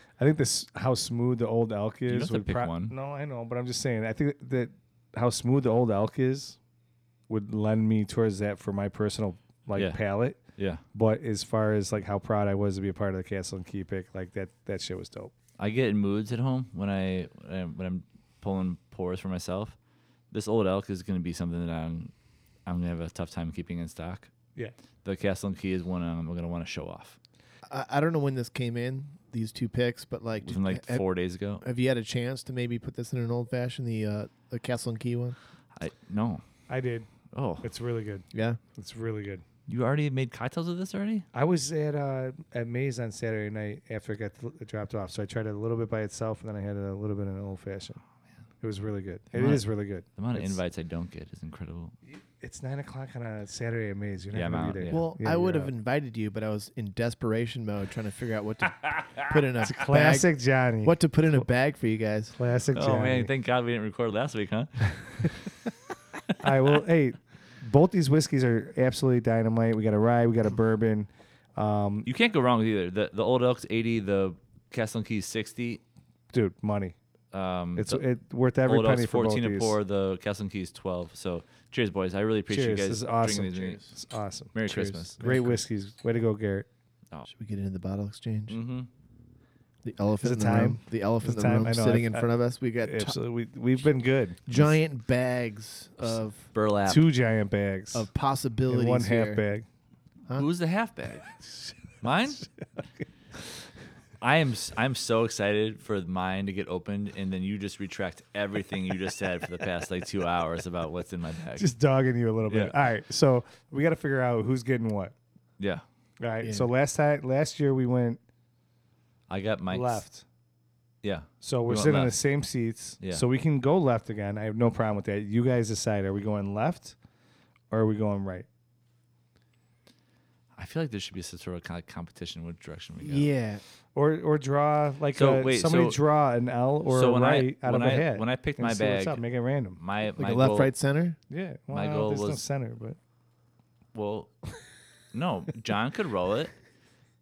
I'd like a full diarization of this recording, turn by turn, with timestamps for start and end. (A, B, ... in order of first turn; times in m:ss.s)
0:00.2-0:06.6 A
0:02.1-0:02.9 B
0:07.3-0:10.4 A
0:09.7-0:10.0 B
0:10.6-0:10.8 B
0:10.9-0:15.3 A
0:15.6-0:19.8 B
0:20.3-0:22.1 B
0:22.7-0:24.3 B
0:25.0-0:27.2 B
0:27.7-0:31.0 C
0:30.4-0:31.6 B
0:31.6-0:35.4 C
0:35.8-0:36.4 B
0:36.7-0:37.1 A
0:37.3-0:37.7 B
0:37.6-0:39.4 A
0:38.3-0:38.6 C
0:39.7-0:41.3 B
0:41.3-0:48.0 A
0:48.6-0:50.6 A
0:49.3-0:49.6 B
0:50.2-0:52.0 B
0:52.1-0:55.7 A
0:54.3-0:55.1 B
0:54.9-1:00.3 C
0:58.9-0:59.3 B
0:59.6-1:01.5 A
1:00.8-1:02.3 C
1:02.3-1:03.3 A
1:02.7-1:05.5 B
1:06.4-1:12.1 A
1:12.1-1:15.8 B
1:16.3-1:17.0 A
1:17.3-1:18.0 B
1:17.8-1:19.8 A
1:18.6-1:23.8 B
1:22.5-1:24.6 A
1:23.6-1:23.9 C
1:24.5-1:25.2 B
1:24.7-1:25.6 C
1:25.2-1:26.7 A
1:27.3-1:28.6 C
1:28.5-1:28.9 B
1:29.8-1:33.2 C
1:30.2-1:32.2 A
1:32.8-1:34.6 A
1:34.5-1:36.5 C
1:36.0-1:37.1 B
1:36.9-1:38.1 A
1:37.9-1:39.4 C
1:38.7-1:39.7 A
1:40.4-1:41.3 B
1:42.0-1:42.4 B
1:44.2-1:51.7 B
1:51.6-1:55.1 A
1:52.5-1:52.7 B
1:56.2-1:58.2 A
1:56.4-1:56.7 C
1:59.3-2:00.0 B
1:59.7-2:00.2 A
2:01.0-2:02.1 B
2:01.4-2:07.0 A
2:07.7-2:08.5 A
2:10.6-2:13.3 B
2:13.0-2:13.6 C
2:14.0-2:19.8 A
2:15.1-2:16.0 B
2:16.9-2:19.2 B
2:19.8-2:20.7 B
2:20.2-2:21.2 C
2:21.3-2:23.0 A
2:21.7-2:22.4 B
2:23.9-2:24.4 B
2:25.1-2:26.5 B